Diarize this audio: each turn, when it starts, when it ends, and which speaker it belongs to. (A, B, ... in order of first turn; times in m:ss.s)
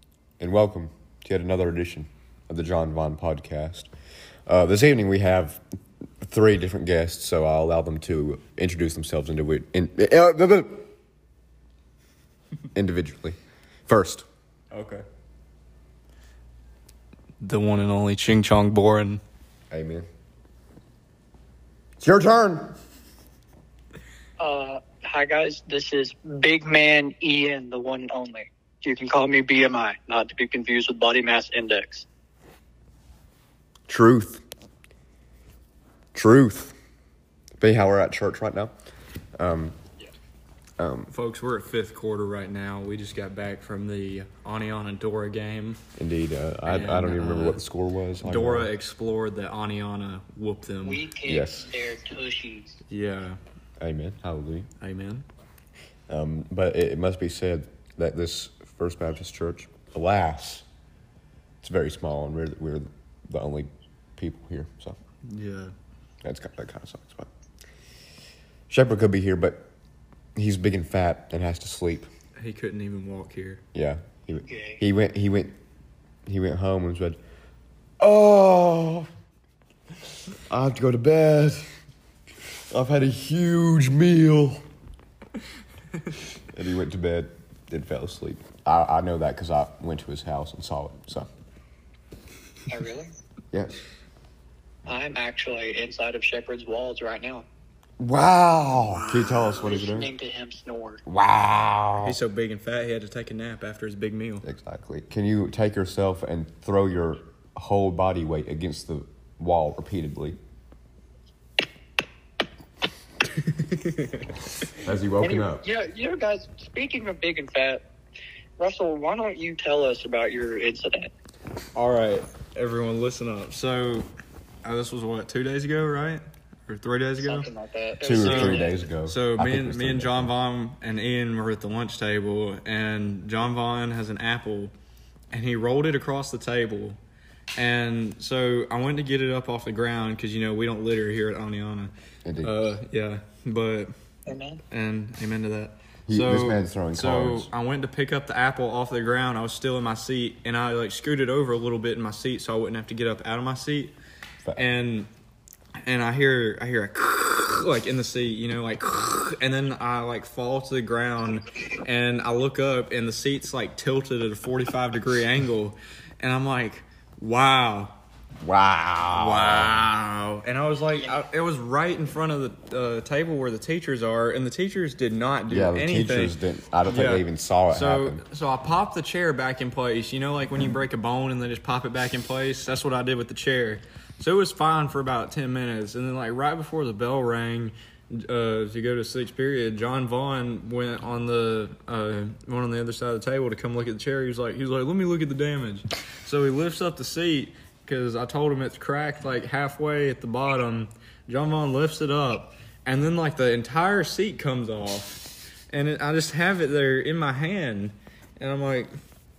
0:00.4-0:03.9 A
0:04.5-0:05.6 A
0:06.2-0:10.9 A
0:12.8-0:13.4 A
0:13.9-0:14.2 A
0:14.7-0:15.0 B
0:17.4-0:19.2 B
0:19.7-0:20.1 A
0:22.0-0:22.8 A
0:24.4-0:32.1 C
0:33.9-0:34.4 A
0:36.1-0:36.8 A
0:37.6-0:38.7 A
0:39.4-0:39.8 A
0:40.8-0:41.1 A
0:41.1-0:45.8 B
0:46.0-0:48.7 A
0:46.7-0:47.6 B
0:48.2-0:51.0 B
0:50.8-0:52.8 C
0:51.3-0:51.7 A
0:52.9-0:53.4 B
0:53.8-0:54.7 A
0:54.8-0:55.2 B
0:56.1-1:00.6 A
1:01.6-1:05.0 A
1:05.2-1:05.7 B
1:06.2-1:07.3 A
1:08.7-1:09.7 A
1:10.4-1:12.1 A
1:12.4-1:13.6 B
1:13.7-1:15.6 A
1:14.4-1:14.8 C
1:16.3-1:17.2 A
1:18.0-1:19.1 A
1:20.5-1:21.7 A
1:22.7-1:24.6 A
1:26.5-1:31.3 A
1:32.7-1:33.1 C
1:33.5-1:33.8 A
1:34.9-1:37.5 C
1:38.0-1:40.1 A
1:39.4-1:41.0 C
1:41.1-1:42.2 A
1:42.0-1:44.4 B
1:44.4-1:50.4 A
1:53.3-1:54.3 B
1:54.7-1:55.6 A
1:55.2-1:57.8 C
1:58.6-2:01.1 C
2:01.8-2:04.1 B
2:04.6-2:07.5 B
2:07.2-2:08.8 C
2:08.0-2:10.3 A
2:08.1-2:14.7 B
2:15.3-2:17.0 B
2:17.6-2:23.9 B
2:22.2-2:22.6 A
2:24.3-2:24.6 C
2:24.7-2:34.0 B
2:26.1-2:27.5 A
2:34.6-2:35.1 B
2:35.8-2:48.0 B
2:48.4-2:49.8 A
2:49.1-2:56.4 B
2:55.5-2:58.2 A
2:56.9-3:28.9 B